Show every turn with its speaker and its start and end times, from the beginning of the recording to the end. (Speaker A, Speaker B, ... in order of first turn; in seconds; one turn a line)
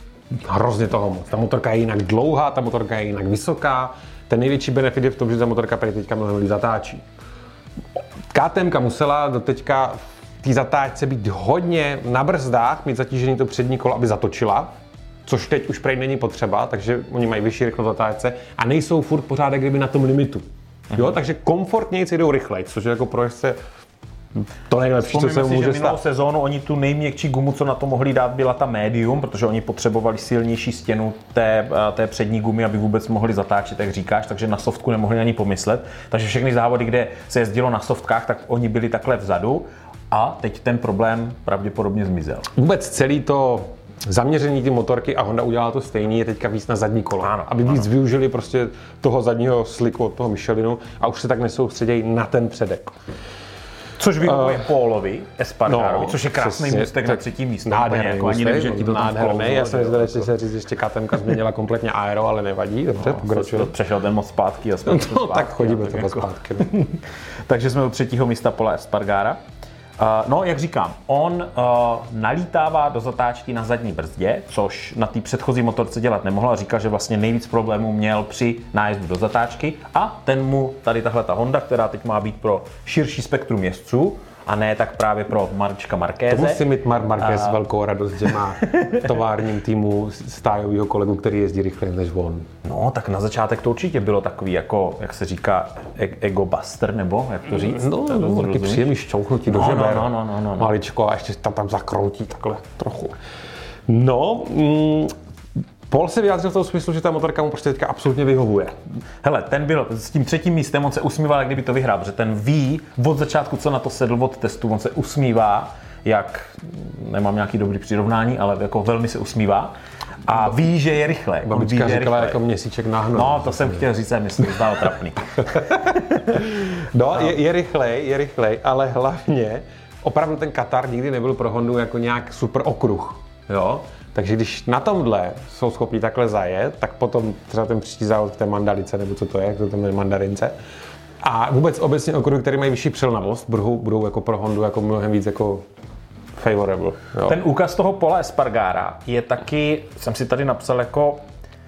Speaker A: 0.3-7.0
Speaker A: 8.3-14.7
Speaker A: 15.3-23.6
Speaker A: 24.7-26.0
Speaker B: 25.1-42.5
Speaker A: 42.5-53.0
Speaker B: 47.2-47.9
Speaker B: 54.0-60.3
Speaker A: 54.2-54.6
Speaker A: 55.7-63.7
Speaker B: 63.0-69.4
Speaker A: 64.8-66.7
Speaker B: 70.0-86.6
Speaker A: 86.3-92.5
Speaker B: 87.2-87.6
Speaker B: 88.6-89.0
Speaker B: 92.6-98.9
Speaker A: 97.5-103.2
Speaker B: 99.5-100.7
Speaker A: 103.9-105.1
Speaker A: 105.9-108.7
Speaker B: 109.2-119.7
Speaker B: 120.3-122.4
Speaker A: 121.5-123.9
Speaker B: 123.1-127.3
Speaker A: 125.4-140.6
Speaker A: 141.2-145.7
Speaker A: 146.4-147.4
Speaker B: 147.3-151.2